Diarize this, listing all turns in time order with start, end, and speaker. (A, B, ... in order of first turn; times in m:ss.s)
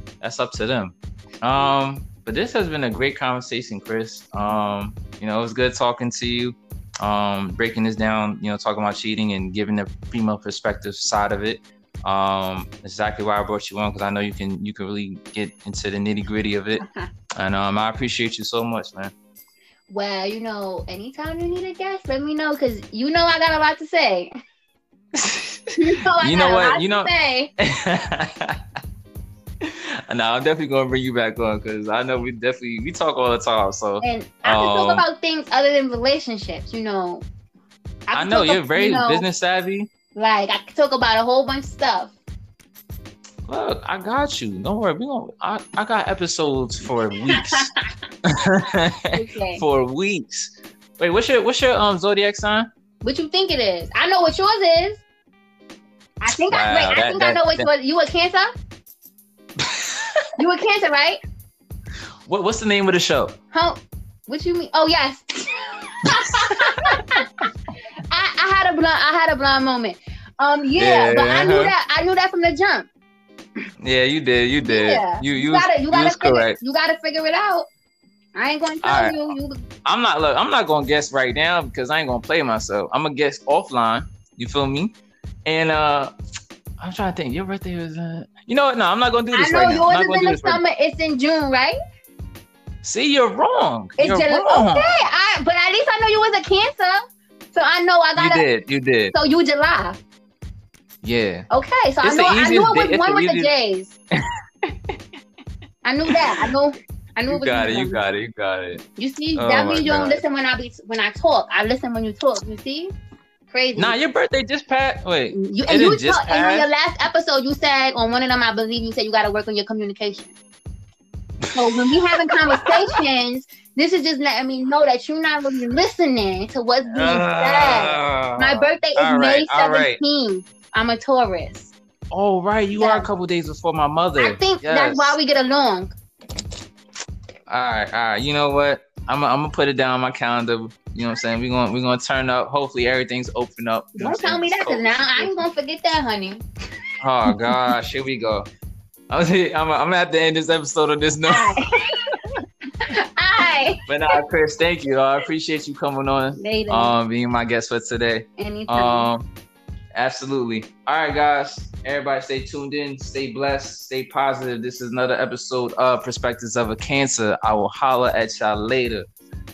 0:00.2-0:16.8 A
0:17.4-0:19.1 A
0:19.9-0:24.3 B
0:25.1-0:28.6 A
0:25.8-0:27.5 B
0:29.6-0:35.0 A
0:34.0-0:37.3 B
0:38.1-0:39.3 B
0:38.1-0:39.9 A
0:40.1-0:42.1 B
0:43.5-0:47.7 A
0:47.3-0:47.8 B
0:48.2-0:52.7 A
0:49.1-0:49.6 B
0:53.0-0:55.0 B
0:56.2-0:58.5 B
0:56.5-0:57.7 A
0:59.6-1:00.3 A
1:00.4-1:01.2 B
1:02.3-1:03.4 A
1:03.5-1:07.5 B
1:08.1-1:12.9 B
1:10.8-1:11.7 A
1:13.8-1:16.6 A
1:14.6-1:17.7 B
1:18.4-1:19.6 B
1:18.8-1:24.9 A
1:25.4-1:26.1 A
1:26.8-1:30.6 A
1:29.3-1:31.8 B
1:32.8-1:34.9 A
1:34.0-1:37.0 B
1:37.5-1:38.5 B
1:38.2-1:39.1 A
1:39.1-1:40.0 B
1:41.0-1:41.5 A
1:41.5-1:44.0 B
1:42.0-1:43.5 A
1:45.8-1:48.0 B
1:46.1-1:46.5 A
1:47.3-1:48.8 A
1:49.0-1:52.9 B
1:49.4-1:50.2 A
1:53.5-1:54.0 B
1:53.8-1:56.7 A
1:55.3-2:00.3 B
2:01.4-2:03.0 A
2:01.5-2:11.7 B
2:06.9-2:10.0 A
2:12.1-2:15.2 A
2:12.7-2:13.1 B
2:14.2-2:15.9 B
2:17.5-2:25.4 A
2:24.0-2:26.4 B
2:27.0-2:28.5 A
2:27.3-2:27.6 B
2:29.1-2:31.5 A
2:31.3-2:32.2 B
2:32.9-2:33.8 B
2:33.9-2:39.3 A
2:36.4-2:36.9 B
2:38.4-2:39.1 B
2:39.9-2:49.1 A